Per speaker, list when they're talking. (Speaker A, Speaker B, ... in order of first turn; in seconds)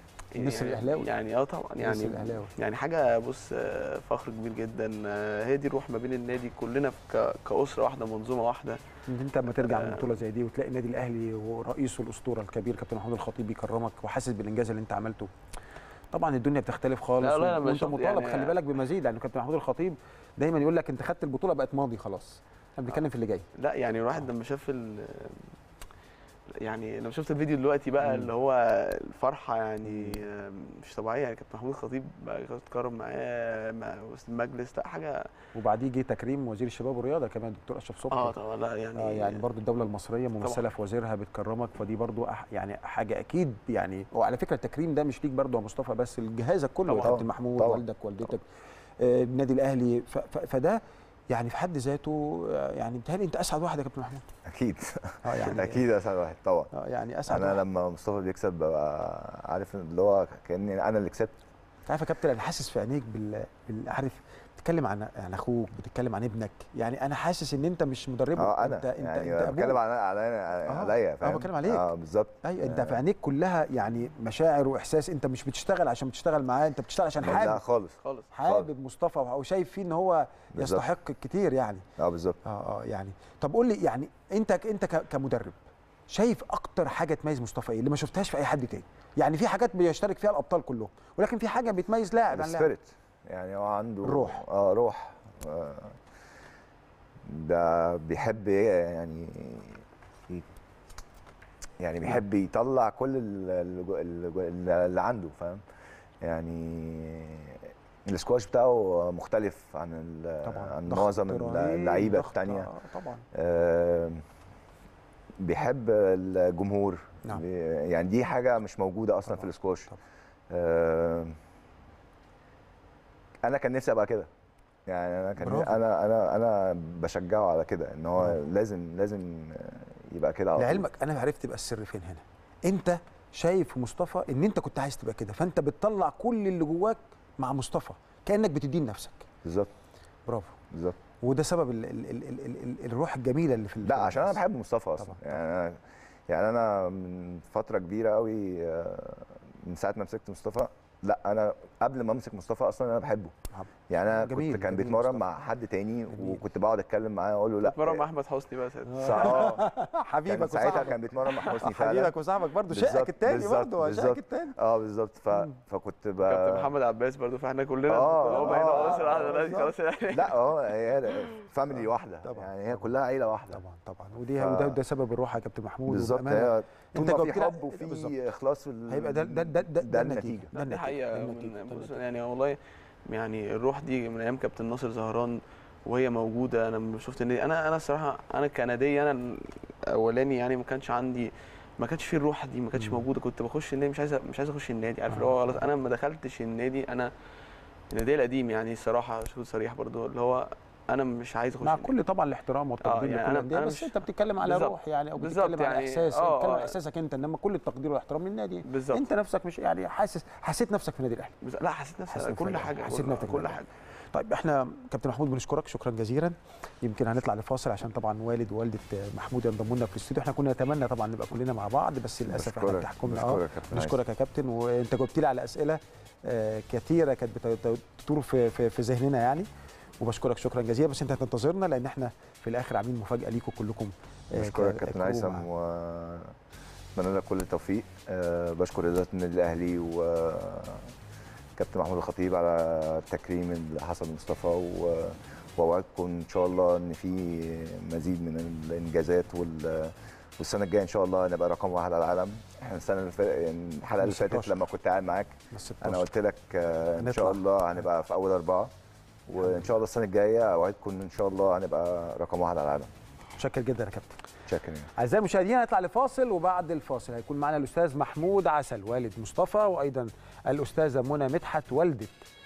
Speaker A: 0.3-8.8, 9.6-10.1, 17.2-18.6, 23.6-25.5, 26.6-35.3, 38.1-39.5, 46.9-47.2, 78.0-78.3, 157.6-159.6, 166.2-170.7, 180.6-197.1, 197.9-201.9, 202.8-206.8, 208.7-209.1, 211.4-213.7
Speaker B: 0.3-1.1, 1.8-2.5, 9.1-15.3, 16.1-23.5, 28.0-28.3, 29.9-30.2, 35.5-38.4, 39.0-48.5, 49.0-54.3, 55.2-55.8, 56.7-57.6, 61.9-69.8, 70.7-71.9, 72.4-77.6, 78.3-81.8, 82.4-92.7, 94.0-94.5, 110.4-113.2, 119.3-120.0, 125.4-125.8, 130.6-139.3, 140.3-140.6, 141.2-144.4, 145.0-145.4, 153.5-155.2, 156.1-156.4, 158.9-164.6, 168.3-169.7, 172.2-172.9, 173.5-178.2, 178.9-182.0, 192.8-193.0, 195.1-195.6, 201.6-211.4, 212.1-213.6, 214.1-229.5, 230.0-235.5, 254.0-254.6, 255.5-256.1, 257.0-257.4, 263.4-264.2, 265.0-272.1
Speaker C: 47.0-47.8, 54.5-56.7, 57.3-61.4, 68.4-73.0, 77.2-78.7, 80.5-80.9, 82.0-82.4, 92.3-96.0, 97.3-100.5, 101.8-105.6, 106.2-112.7, 113.3-114.2, 115.4-119.9, 120.5-121.4, 123.4-124.3, 124.9-130.9, 139.4-139.7, 140.7-141.0, 143.8-153.3, 153.9-158.0, 159.0-159.7, 160.2-162.2, 162.7-166.7, 167.9-173.6, 174.4-174.8, 175.9-180.5, 222.3-224.0, 234.3-236.4, 237.0-240.9, 241.6-258.7, 259.3-262.9, 264.5-264.9